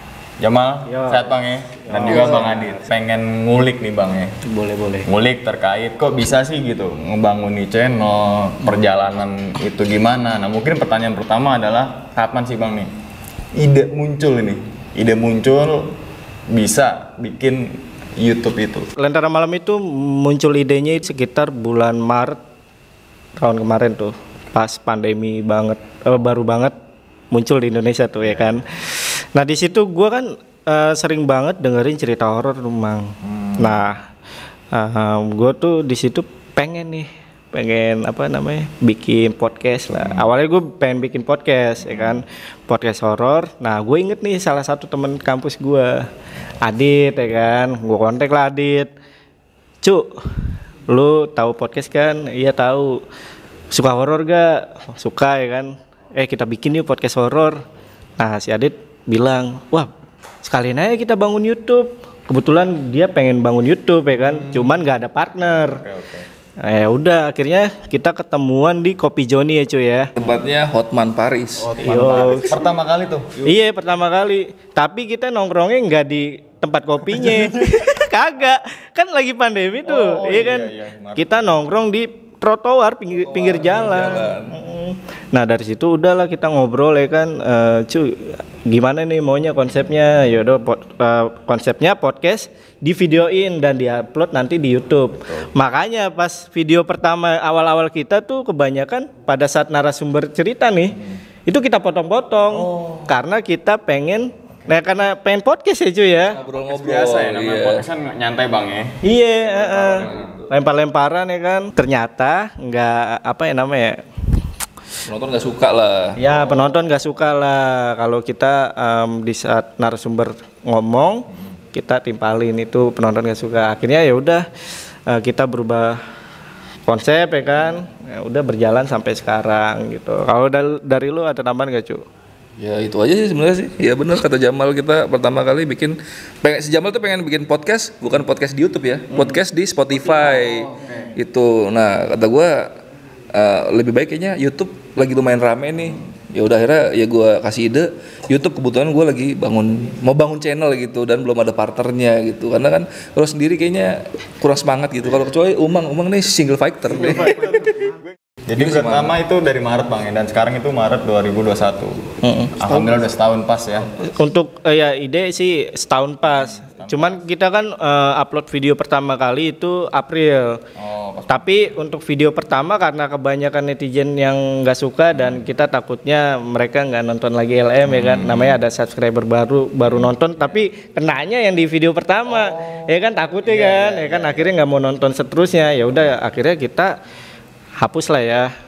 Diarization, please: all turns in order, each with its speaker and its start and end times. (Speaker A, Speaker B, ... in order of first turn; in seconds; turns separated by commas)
Speaker A: 0.4-4.3, Speaker B: 0.8-1.3, Speaker B: 1.8-2.8, Speaker B: 4.4-5.1, Speaker A: 5.0-12.9, Speaker A: 13.5-15.9, Speaker A: 16.5-18.9, Speaker B: 19.0-22.4, Speaker B: 23.4-26.7, Speaker B: 27.3-34.0, Speaker A: 33.2-33.8, Speaker B: 34.7-46.1, Speaker A: 39.9-40.3, Speaker A: 41.9-42.2, Speaker B: 46.6-48.9, Speaker B: 49.8-50.2, Speaker B: 50.9-53.0, Speaker B: 53.7-57.6, Speaker B: 58.2-59.9, Speaker B: 60.4-65.8, Speaker A: 64.3-64.7, Speaker A: 65.6-66.2, Speaker B: 66.6-70.1, Speaker C: 70.2-71.7, Speaker A: 71.6-73.3, Speaker B: 71.8-72.6, Speaker B: 73.4-106.4, Speaker A: 77.2-77.8, Speaker A: 79.8-81.5, Speaker C: 83.3-84.5, Speaker A: 102.5-103.1, Speaker C: 106.3-107.8, Speaker A: 106.4-110.3, Speaker B: 109.0-114.0, Speaker C: 110.0-110.5, Speaker C: 115.1-116.2, Speaker B: 116.2-124.5, Speaker B: 125.1-126.0, Speaker B: 126.9-132.0, Speaker C: 132.6-142.7, Speaker A: 140.1-141.1, Speaker C: 143.3-157.7, Speaker A: 156.9-163.9, Speaker C: 158.6-159.1, Speaker B: 162.2-162.6, Speaker B: 164.0-170.6, Speaker A: 166.2-167.2, Speaker A: 170.8-171.6, Speaker B: 171.3-186.9, Speaker A: 177.8-178.6, Speaker A: 182.3-182.9, Speaker C: 183.5-184.4, Speaker A: 183.7-184.2, Speaker B: 187.8-188.5